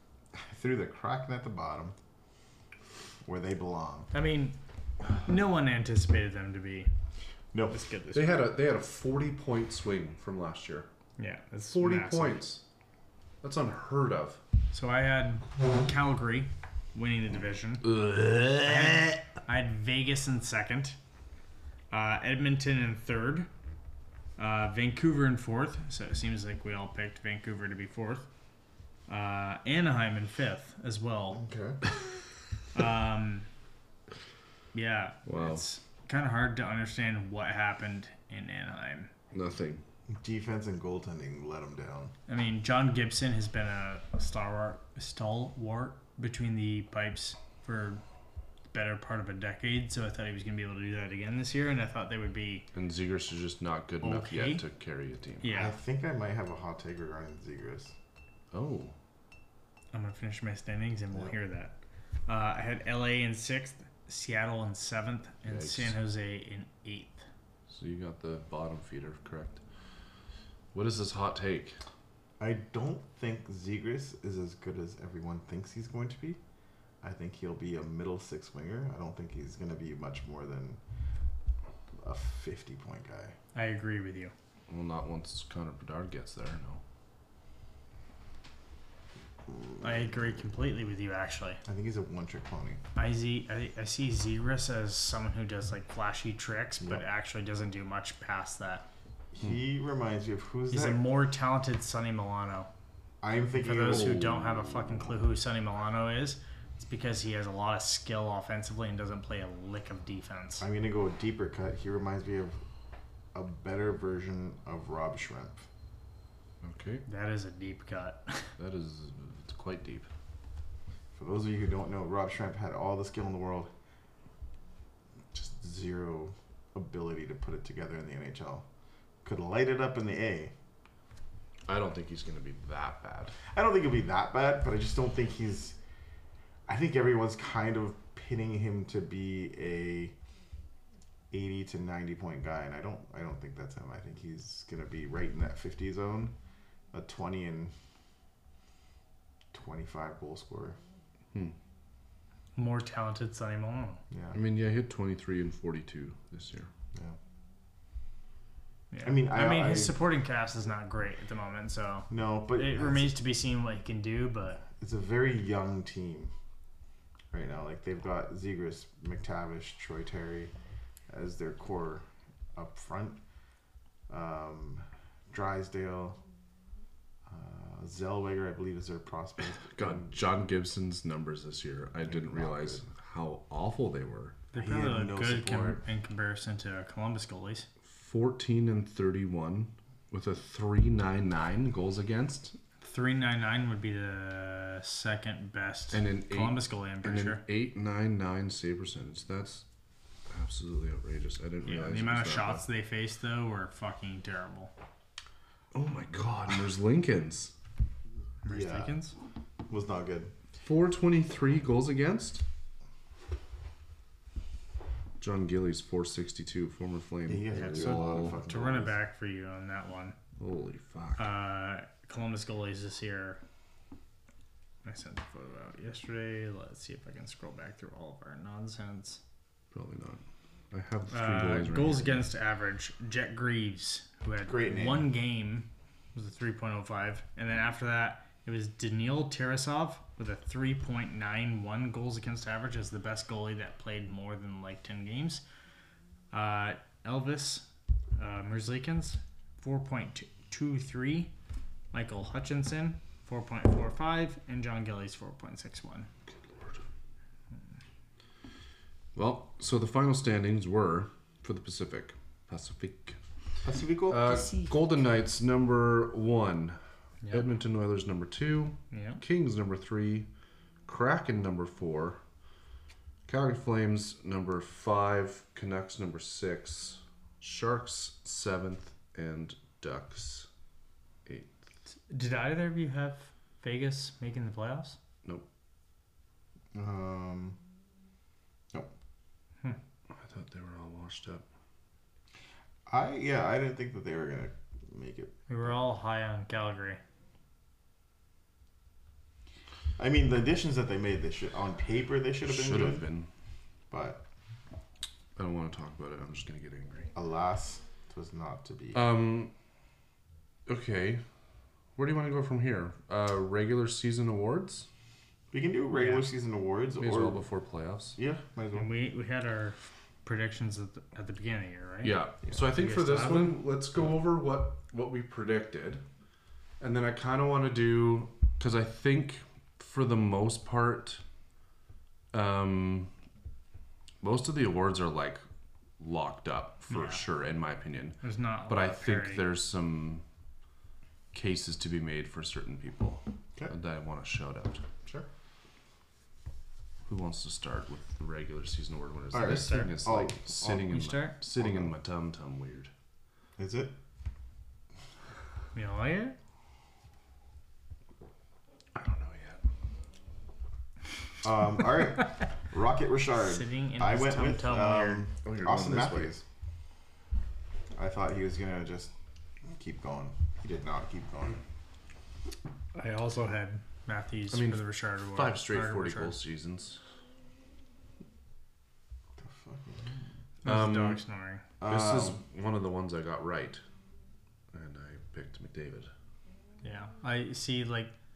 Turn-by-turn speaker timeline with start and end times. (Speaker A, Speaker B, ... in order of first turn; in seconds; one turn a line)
Speaker A: 0.3-1.9
Speaker A: 3.2-4.1
Speaker B: 4.1-4.5
Speaker B: 5.1-6.9
Speaker A: 7.5-7.8
Speaker B: 7.7-8.5
Speaker C: 8.1-10.9
Speaker B: 11.2-12.4
Speaker C: 11.7-12.6
Speaker C: 13.4-14.4
Speaker B: 14.7-17.9
Speaker C: 17.8-19.2
Speaker B: 18.6-21.0
Speaker B: 21.9-23.5
Speaker B: 24.4-28.3
Speaker B: 29.1-31.4
Speaker A: 31.3-31.8
Speaker B: 32.7-33.5
Speaker B: 34.7-39.1
Speaker C: 35.2-35.6
Speaker C: 39.3-39.8
Speaker A: 40.1-42.1
Speaker B: 42.3-48.0
Speaker B: 48.7-52.6
Speaker C: 52.7-55.4
Speaker B: 54.0-54.6
Speaker B: 55.4-55.8
Speaker A: 55.5-57.9
Speaker C: 58.5-58.9
Speaker B: 59.9-61.8
Speaker B: 62.3-67.2
Speaker C: 65.5-65.9
Speaker C: 67.7-69.6
Speaker C: 70.7-71.8
Speaker A: 72.4-76.4
Speaker A: 77.0-80.8
Speaker A: 82.0-83.3
Speaker B: 83.5-84.3
Speaker C: 84.7-86.8
Speaker A: 89.5-90.1
Speaker B: 89.8-91.6
Speaker A: 91.6-92.8
Speaker B: 92.9-98.8
Speaker A: 99.3-101.0
Speaker B: 100.7-102.7
Speaker A: 103.2-104.2
Speaker B: 103.6-110.6
Speaker C: 103.9-105.1
Speaker A: 110.6-112.6
Speaker A: 113.3-115.6
Speaker C: 116.6-117.0
Speaker B: 117.0-118.5
Speaker C: 118.6-120.1
Speaker A: 121.1-123.7
Speaker A: 125.3-128.6
Speaker A: 129.2-130.5
Speaker C: 131.7-133.4
Speaker A: 133.5-135.8
Speaker A: 136.7-140.1
Speaker A: 141.3-146.3
Speaker A: 146.9-147.7
Speaker A: 149.5-150.8
Speaker B: 152.5-154.0
Speaker A: 154.1-154.4
Speaker C: 154.3-156.7
Speaker B: 158.9-164.6
Speaker A: 159.0-160.0
Speaker A: 162.1-163.1
Speaker A: 164.8-166.3
Speaker A: 167.3-170.5
Speaker A: 171.1-173.2
Speaker A: 174.1-176.2
Speaker A: 177.3-180.1
Speaker C: 179.6-184.4
Speaker A: 182.0-182.8
Speaker B: 184.5-187.7
Speaker A: 184.6-185.8
Speaker C: 187.8-192.6
Speaker B: 192.8-197.4
Speaker C: 195.9-199.6
Speaker C: 200.3-202.6
Speaker B: 201.6-204.7
Speaker C: 205.7-207.5
Speaker B: 208.4-209.1
Speaker A: 208.4-208.9
Speaker A: 209.7-210.3
Speaker C: 210.6-212.4
Speaker C: 215.2-218.4
Speaker A: 217.3-219.0
Speaker B: 217.5-220.2
Speaker C: 220.4-221.3
Speaker B: 221.2-223.4
Speaker B: 224.8-229.2
Speaker C: 229.7-232.3
Speaker B: 231.1-245.4
Speaker A: 234.4-235.1
Speaker B: 246.3-251.3
Speaker B: 251.9-256.1
Speaker C: 256.4-256.8
Speaker C: 259.1-263.2
Speaker A: 263.6-264.6
Speaker C: 264.1-266.8
Speaker C: 267.3-270.3
Speaker B: 268.9-269.2
Speaker C: 270.9-272.2
Speaker C: 273.3-280.5
Speaker C: 281.2-281.5
Speaker B: 282.1-285.0
Speaker A: 286.7-287.6
Speaker C: 290.1-291.4
Speaker A: 292.9-295.5
Speaker B: 295.5-297.0
Speaker A: 300.0-303.1
Speaker C: 302.4-303.3
Speaker A: 303.9-304.2
Speaker C: 305.4-307.1
Speaker A: 307.1-309.0
Speaker C: 308.9-309.5
Speaker C: 310.6-311.2
Speaker C: 311.9-314.9
Speaker A: 315.5-317.4
Speaker B: 315.9-316.2
Speaker C: 317.0-318.2
Speaker A: 318.1-318.9
Speaker B: 318.7-323.6
Speaker C: 322.0-326.0
Speaker C: 326.8-331.2
Speaker C: 332.3-333.1
Speaker C: 334.2-335.4
Speaker C: 336.0-340.2
Speaker B: 336.9-337.2
Speaker B: 338.2-339.4
Speaker C: 341.3-344.9
Speaker C: 347.1-352.9
Speaker A: 349.3-350.9
Speaker B: 349.4-349.9
Speaker B: 350.9-351.4
Speaker A: 351.6-351.9
Speaker A: 353.6-353.9
Speaker B: 355.7-356.4
Speaker C: 358.9-359.6
Speaker A: 361.4-366.4
Speaker B: 363.4-365.2
Speaker C: 365.4-366.3
Speaker A: 367.9-369.1
Speaker A: 369.6-371.6
Speaker B: 372.9-376.4
Speaker C: 374.5-377.0
Speaker A: 379.4-380.3
Speaker B: 380.6-381.6
Speaker C: 380.6-381.2
Speaker A: 381.8-382.4
Speaker C: 381.8-383.8
Speaker C: 384.7-386.1
Speaker B: 386.8-388.1